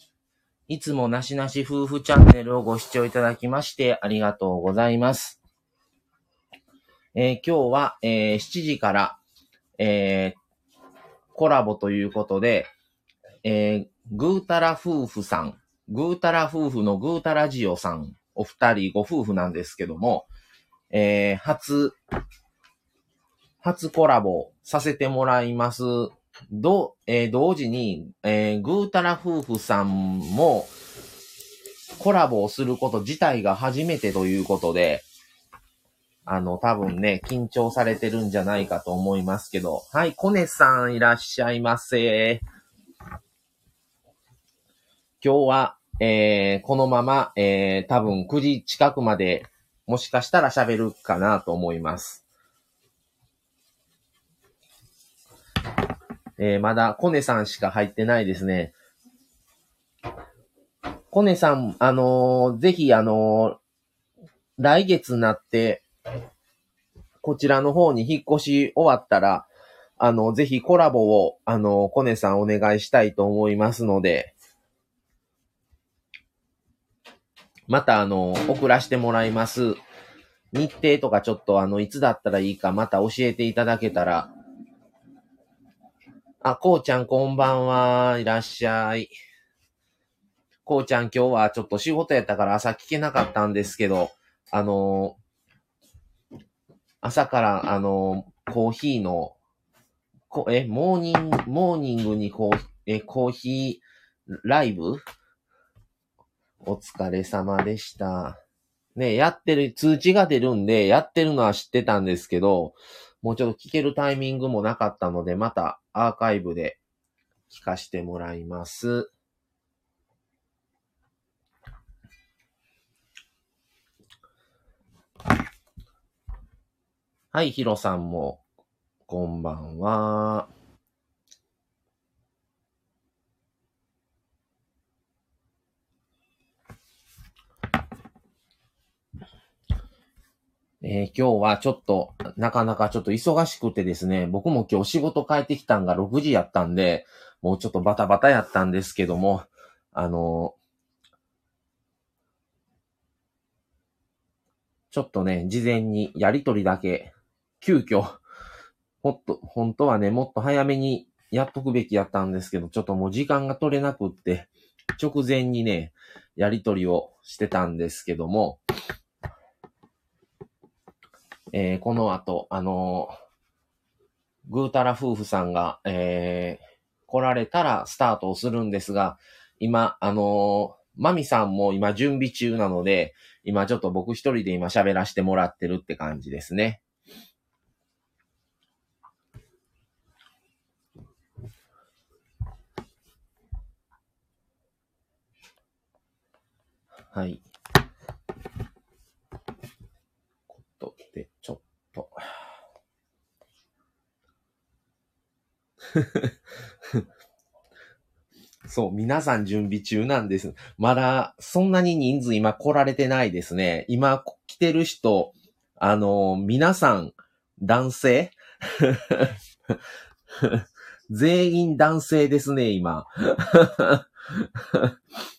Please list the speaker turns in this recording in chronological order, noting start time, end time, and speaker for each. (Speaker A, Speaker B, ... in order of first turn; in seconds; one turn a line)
Speaker A: 0.7-5.4
Speaker A: 7.1-9.2
Speaker A: 9.8-10.4
Speaker A: 11.3-12.7
Speaker A: 13.4-20.3
Speaker A: 20.9-21.9
Speaker A: 23.6-30.7
Speaker A: 32.0-35.0
Speaker A: 36.2-42.4
Speaker A: 45.2-52.2
Speaker A: 56.4-58.7
Speaker A: 61.1-63.6
Speaker A: 64.6-65.8
Speaker A: 67.2-69.5
Speaker A: 70.0-74.3
Speaker A: 77.7-79.8
Speaker A: 80.5-84.3
Speaker A: 86.4-89.1
Speaker A: 90.7-95.2
Speaker A: 97.0-99.3
Speaker A: 100.3-105.0
Speaker A: 106.6-108.4
Speaker A: 109.0-116.8
Speaker A: 117.5-119.1
Speaker A: 127.3-128.4
Speaker A: 129.1-130.5
Speaker A: 140.8-150.6
Speaker A: 154.9-158.2
Speaker A: 159.0-168.6
Speaker A: 171.5-173.1
Speaker A: 174.5-186.8
Speaker A: 197.1-197.4
Speaker A: 200.6-202.2
Speaker A: 205.9-206.2
Speaker A: 208.7-219.3
Speaker A: 220.4-224.0